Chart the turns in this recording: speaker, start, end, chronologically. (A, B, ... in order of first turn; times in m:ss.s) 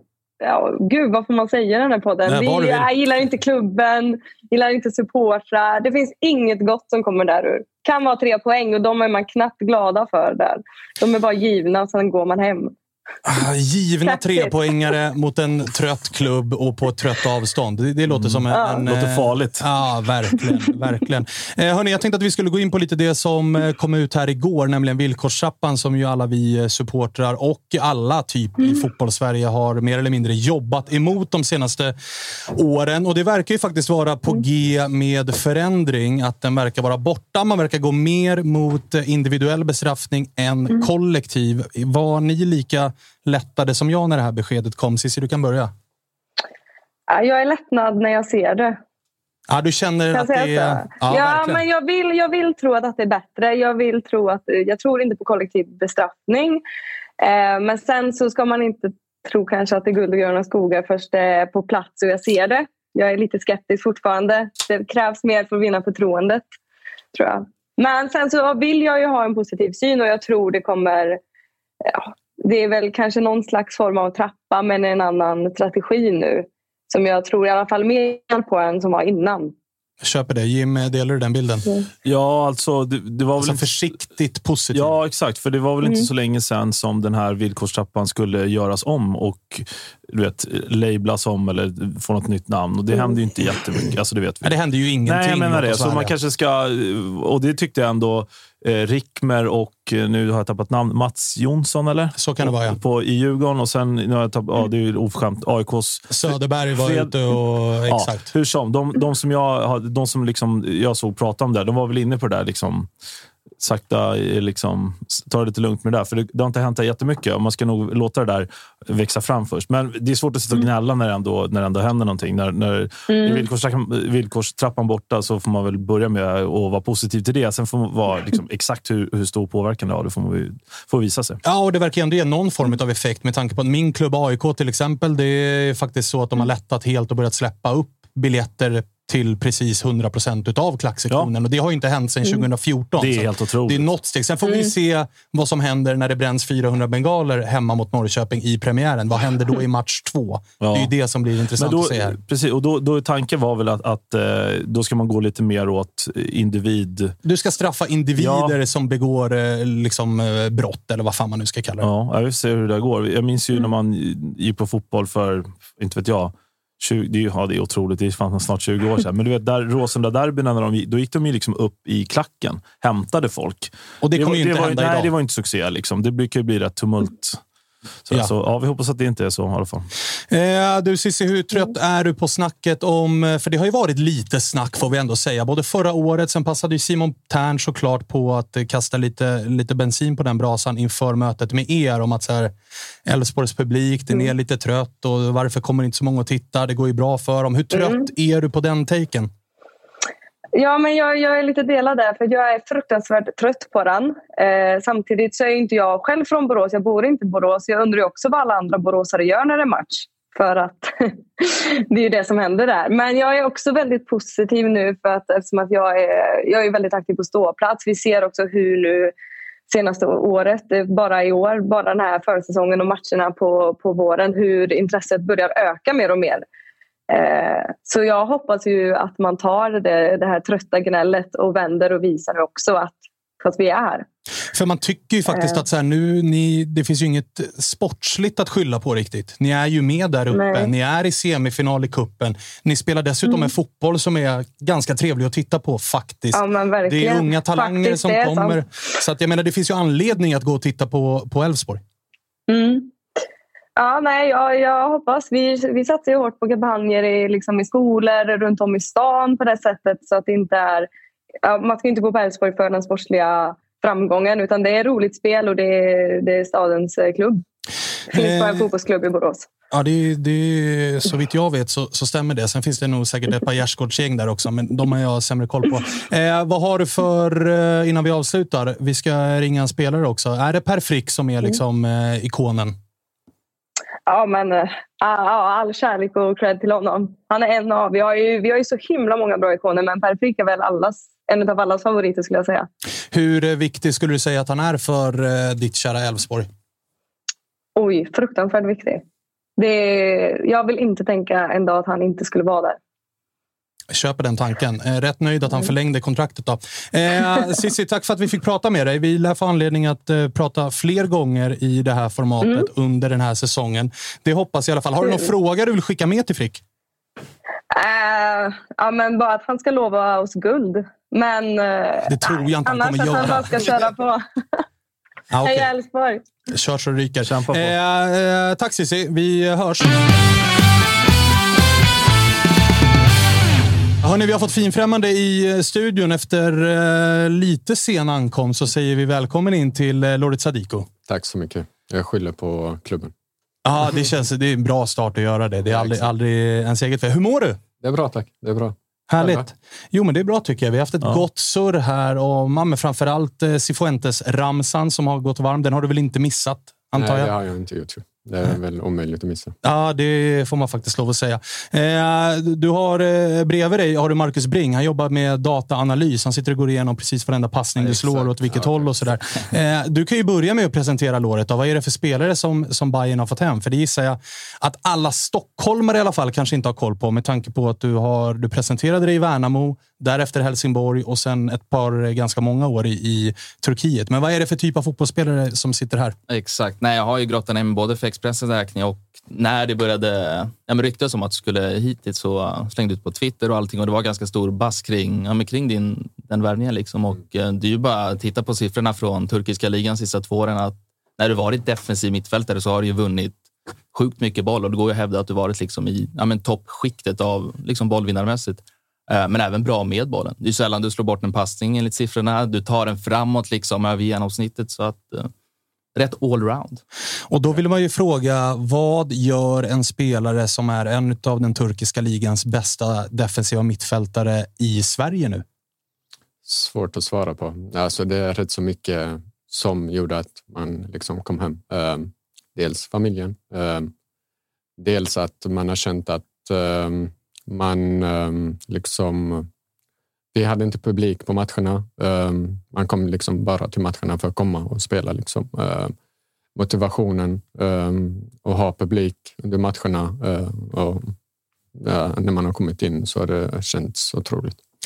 0:00.4-0:12.7 A
0:02.3-0:02.9 B
0:13.3-0:31.9 B
0:14.1-0:14.5 A
0:18.1-0:19.6 C
0:18.5-0:18.9 A
0:32.5-0:45.7 B
0:47.1-0:48.8 A
0:49.5-0:51.6 B
0:50.1-0:56.6 A
0:57.2-1:06.4 A
1:07.1-1:11.2 A
1:11.9-1:19.5 A
1:20.0-1:21.7 B
1:22.0-1:23.8 C
1:23.4-1:25.0 B
1:24.7-1:34.6 C
1:25.8-1:26.1 A
1:34.4-1:36.2 B
1:35.1-1:52.9 C
1:42.2-1:42.8 B
1:46.1-1:48.3 B
1:53.6-2:11.4 C
2:03.1-2:03.5 A
2:11.4-2:32.2 B
2:23.0-2:23.9 C
2:30.6-2:30.9 C
2:31.6-2:37.2 C
2:37.2-2:41.9 B
2:38.2-2:38.6 C
2:41.8-2:57.4 C
2:54.0-2:55.1 B
2:58.1-2:59.9 C
3:00.3-3:12.5 B
3:13.1-3:19.3 B
3:17.8-3:18.0 A
3:20.6-3:39.1 A
3:39.7-3:46.4 A
3:47.1-3:54.0 A
3:54.5-4:11.8 B
3:55.3-3:55.6 A
4:00.3-4:00.7 A
4:06.3-4:08.6 A
4:12.5-4:12.9 A
4:13.8-4:20.9 A
4:21.4-4:27.4 A
4:28.1-4:28.7 B
4:28.1-4:29.5 A
4:29.7-4:42.8 B
4:44.1-4:52.7 A
4:53.1-4:56.5 B
4:57.8-4:59.0 A
4:59.6-5:02.8 A
5:03.9-5:16.6 B
5:17.7-5:24.3 A
5:22.1-5:23.6 B
5:25.3-5:25.7 B
5:25.4-5:26.2 A
5:26.5-5:30.0 B
5:27.3-5:27.8 C
5:34.0-5:40.9 B
5:41.1-5:43.1 D
5:43.6-5:47.6 B
5:45.7-5:46.1 D
5:47.8-5:49.5 D
5:49.1-5:57.3 B
5:57.0-5:59.6 D
5:59.6-6:26.2 B
6:07.8-6:09.2 D
6:26.3-6:43.4 E
6:43.9-6:55.3 E
6:56.0-6:56.8 E
6:57.3-7:05.4 B
7:06.4-7:13.9 D
7:14.8-7:19.5 D
7:20.3-7:25.9 D
7:26.6-7:31.1 D
7:31.8-7:34.6 D